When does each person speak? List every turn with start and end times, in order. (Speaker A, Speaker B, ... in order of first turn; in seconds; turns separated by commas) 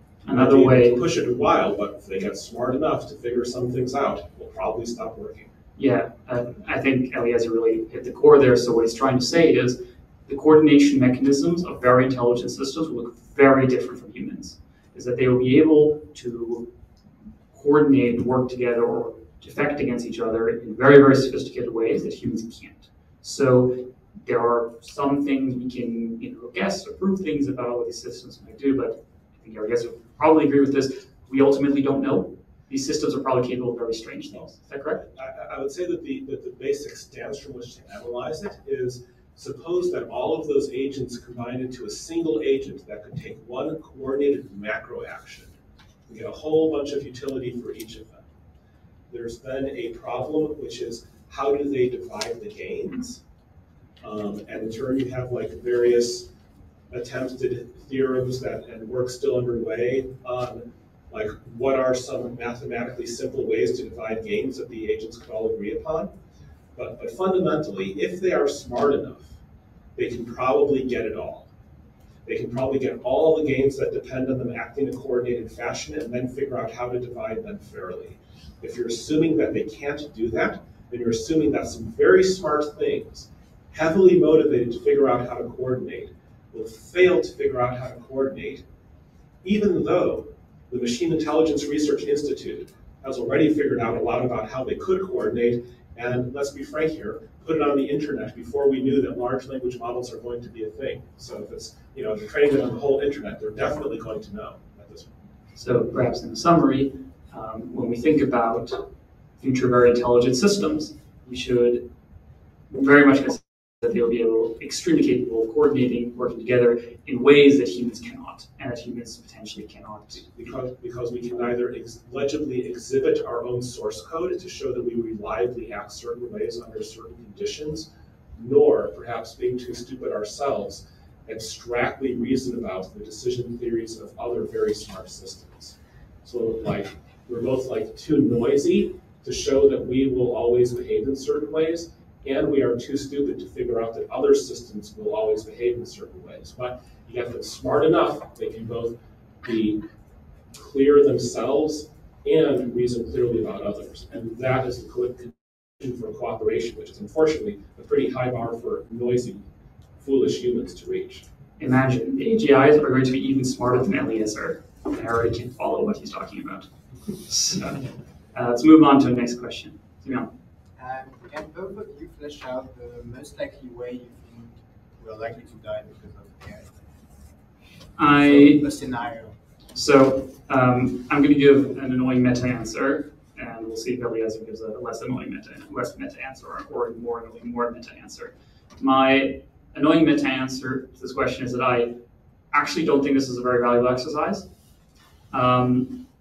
Speaker A: 0.2-1.0, Speaker B: 0.3-5.5, Speaker A: 5.8-16.7, Speaker A: 17.5-35.0, Speaker B: 35.0-45.5, Speaker B: 46.1-48.3, Speaker B: 49.1-53.2, Speaker B: 54.0-56.3, Speaker B: 56.9-66.1, Speaker B: 66.8-69.3, Speaker B: 70.0-71.5, Speaker B: 72.2-88.6, Speaker B: 89.4-105.1, Speaker A: 105.6-108.8, Speaker A: 109.4-111.9, Speaker A: 112.7-120.3, Speaker B: 120.2-149.8, Speaker B: 150.5-159.4, Speaker B: 160.0-161.2, Speaker A: 161.6-166.7, Speaker A: 167.2-170.3, Speaker C: 170.8-176.7, Speaker A: 178.0-178.6, Speaker C: 178.0-179.3, Speaker A: 179.7-191.9, Speaker A: 192.5-194.5, Speaker A: 195.3-196.0